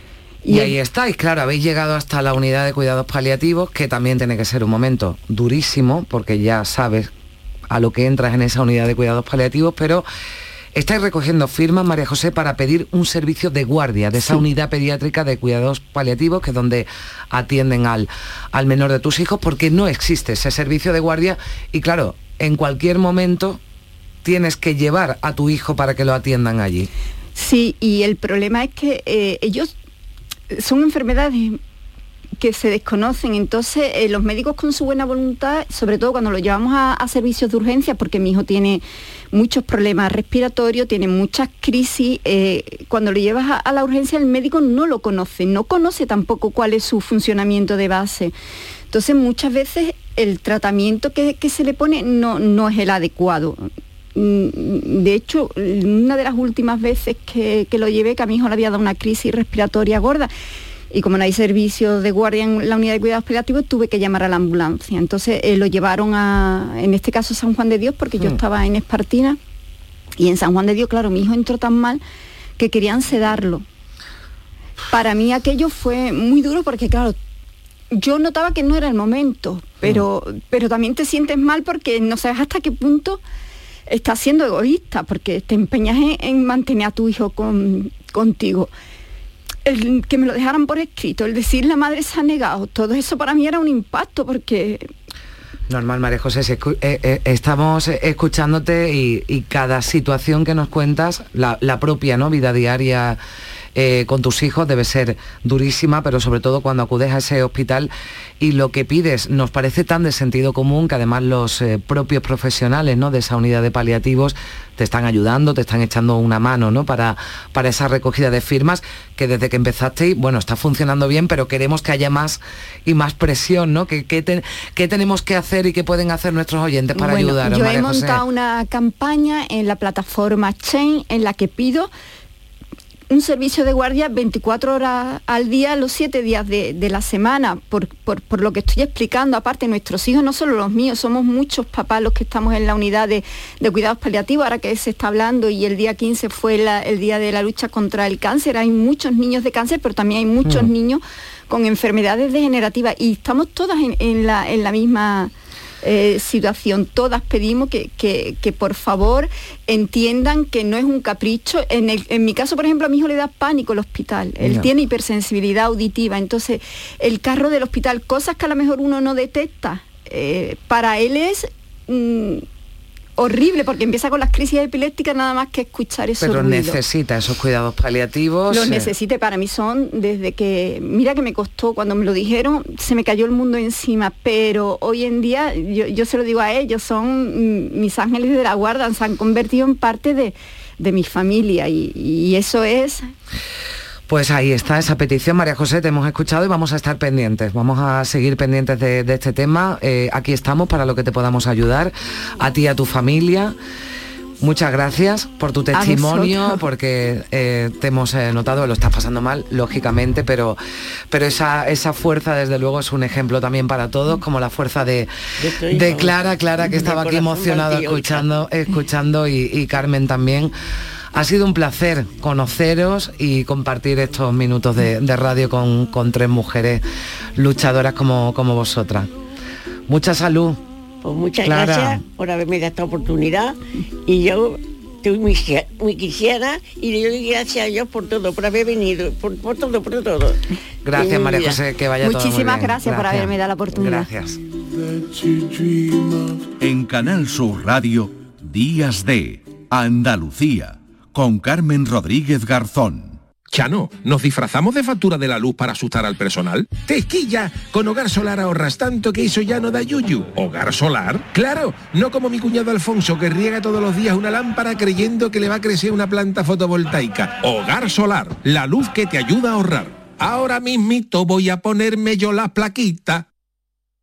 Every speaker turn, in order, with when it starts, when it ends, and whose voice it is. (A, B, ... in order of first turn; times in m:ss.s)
0:00.4-0:00.8 A
0:00.5-0:07.1 B
0:07.7-0:10.0 B
0:10.7-0:23.6 B
0:24.2-0:26.9 B
0:27.3-0:29.7 A
0:30.5-0:31.6 A
0:32.4-0:48.3 A
0:48.9-1:00.3 A
1:00.9-1:09.4 A
1:10.2-1:12.0 A
1:12.6-1:13.6 A
1:14.9-1:17.2 A
1:17.9-1:23.2 A
1:23.9-1:28.7 A
1:29.6-1:34.9 A
1:35.7-1:43.2 B
1:43.7-2:08.2 B
2:06.9-2:11.9 A
2:13.1-2:52.4 A
2:30.4-2:30.7 B
2:44.4-2:44.7 B
2:53.2-2:56.8 A
2:56.2-2:58.9 B
2:58.5-3:13.1 A
3:14.1-3:23.6 B
3:24.4-3:35.1 B
3:25.7-3:26.6 A
3:35.4-3:38.2 C
3:35.6-3:40.5 B
3:41.1-3:46.8 B
3:47.3-3:49.1 B
3:49.9-3:50.6 B
3:51.0-4:00.4 C
3:51.4-3:52.0 B
4:00.8-4:04.4 B
4:01.0-4:01.6 C
4:02.0-4:04.1 A
4:06.6-4:13.2 D
4:13.5-4:33.2 E